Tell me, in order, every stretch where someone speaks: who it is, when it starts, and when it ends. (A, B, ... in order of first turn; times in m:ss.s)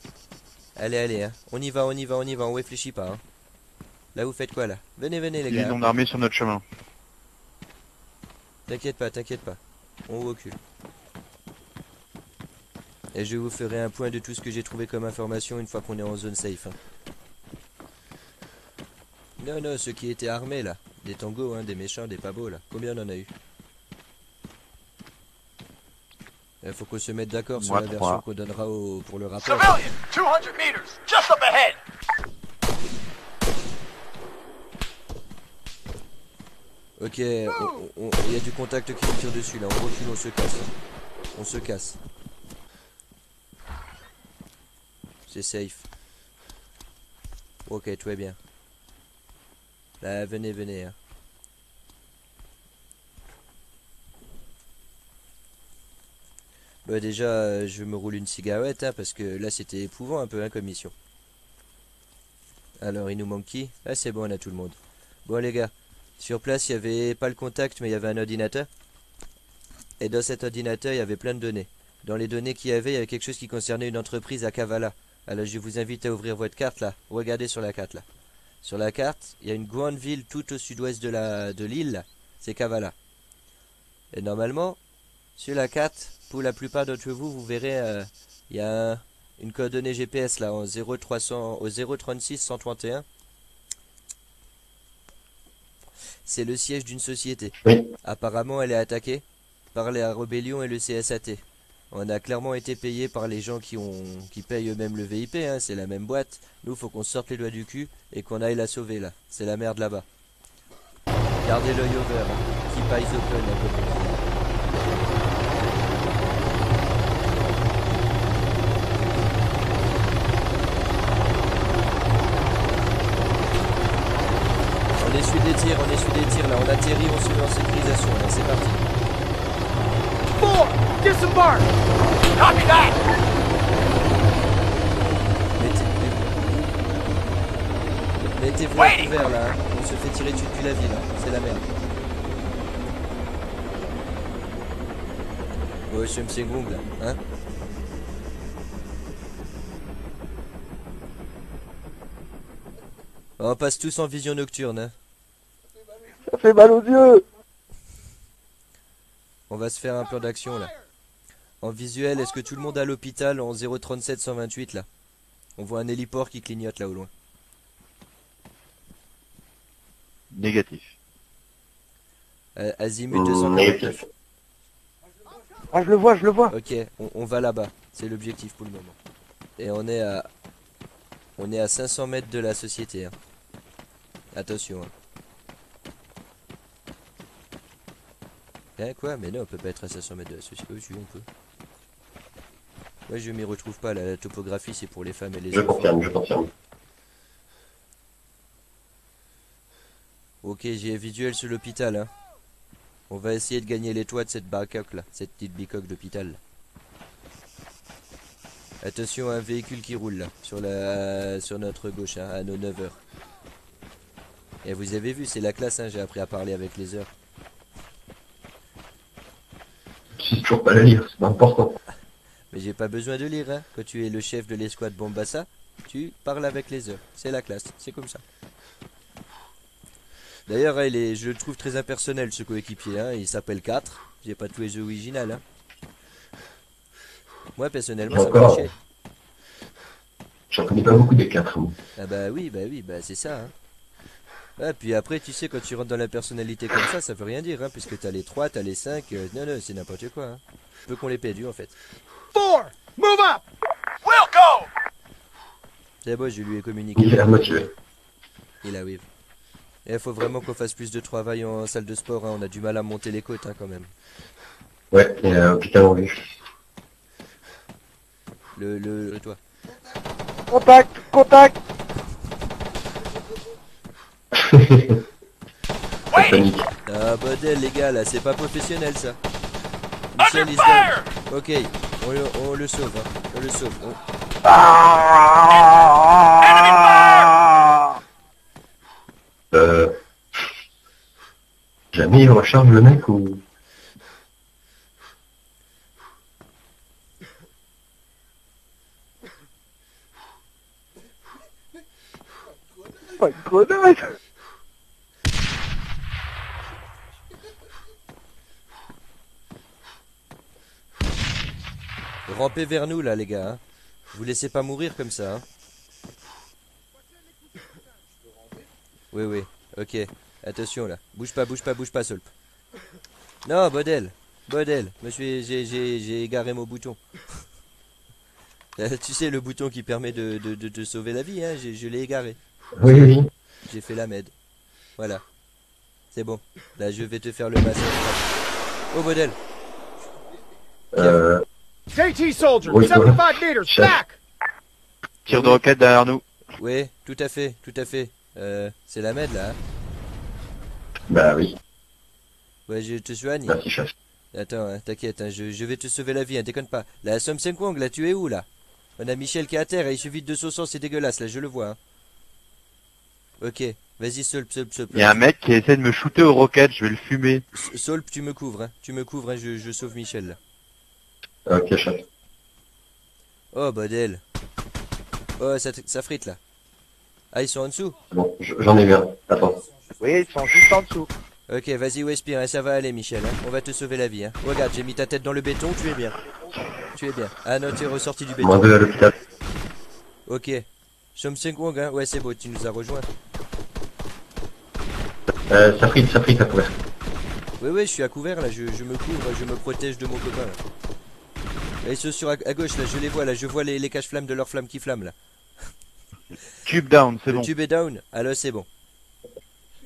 0:00.8-0:03.2 A
0:04.2-0:05.8 A
0:05.5-0:06.6 B
0:08.7-0:10.6 A
0:13.1-0:16.8 A
0:19.4-0:23.3 A
0:26.6-0:29.9 A
0:27.6-0:28.2 B
0:29.7-0:31.8 C
0:37.0-0:40.7 A
0:41.3-0:42.0 A
0:45.3-0:45.9 A
0:47.7-0:48.4 A
0:50.0-0:51.0 A
0:56.8-1:00.9 A
1:02.8-1:08.7 A
1:10.0-1:18.0 A
1:18.6-1:23.0 A
1:24.1-1:24.8 A
1:25.4-1:33.1 A
1:36.3-1:50.1 A
1:51.4-1:54.2 A
2:05.0-2:08.8 A
2:10.4-2:11.7 C
2:12.4-2:13.0 C
2:15.6-2:16.3 A
2:18.2-2:21.6 A
2:25.9-2:27.2 A
2:33.4-2:34.9 A
2:36.2-2:37.2 D
2:39.5-2:40.7 A
2:41.6-2:44.9 A
2:45.6-2:47.1 A
2:50.3-2:51.0 B
2:52.6-2:54.0 A
2:53.1-2:54.1 E
2:55.7-2:56.5 D
2:56.5-2:59.0 A
2:59.6-3:00.3 A
3:01.4-3:03.2 A
3:04.3-3:04.9 A
3:08.8-3:11.3 A
3:13.1-3:16.0 A
3:15.5-3:16.5 E
3:20.4-3:22.1 A
3:23.1-3:26.4 A
3:28.8-3:33.0 A
3:34.6-3:37.1 A
3:40.2-3:41.8 E
3:42.5-3:48.2 A
3:50.5-3:55.4 A
3:57.6-3:58.8 A
3:58.1-3:58.7 E
4:00.5-4:01.8 E
4:02.0-4:03.5 A
4:04.6-4:11.8 A
4:12.3-4:13.4 C
4:14.0-4:14.7 C
4:16.0-4:17.7 A
4:17.0-4:17.7 E
4:18.6-4:19.1 A
4:19.9-4:23.9 A
4:24.9-4:26.3 E
4:28.6-4:29.4 A
4:30.5-4:31.6 D
4:34.3-4:35.0 E
4:36.1-4:36.7 E
4:36.9-4:39.2 A
4:40.1-4:44.0 A
4:44.5-4:45.1 E
4:46.5-4:47.3 C
4:47.4-4:47.6 D
4:49.5-4:49.9 E
4:51.9-4:53.4 E
5:03.2-5:04.1 D
5:12.3-5:13.6 A
5:14.1-5:15.4 A
5:19.1-5:22.3 A
5:23.4-5:27.0 A
5:28.8-5:33.2 A
5:32.8-5:33.3 E
5:33.7-5:34.3 A
5:36.1-5:38.3 A
5:38.9-5:39.4 A
5:40.9-5:41.4 E
5:41.9-5:44.2 C
5:42.6-5:44.0 E
5:45.3-5:46.2 B
5:45.3-5:45.6 A
5:46.6-5:49.6 A
5:51.1-5:51.6 E
5:52.7-5:53.6 A
5:53.5-5:53.9 E
5:54.3-5:58.5 A
5:59.0-6:01.8 A
6:03.4-6:05.2 A
6:04.9-6:07.4 B
6:07.5-6:10.4 A
6:11.5-6:12.1 E
6:13.5-6:14.2 A
6:15.4-6:16.4 A
6:17.3-6:18.0 A
6:18.1-6:19.6 E
6:20.0-6:21.1 D
6:21.5-6:26.2 A
6:26.9-6:28.8 A
6:28.4-6:29.1 E
6:30.3-6:33.1 A
6:35.5-6:36.8 E
6:37.6-6:40.6 A
6:41.8-6:45.2 A
6:46.7-6:47.5 B
6:47.3-6:48.7 A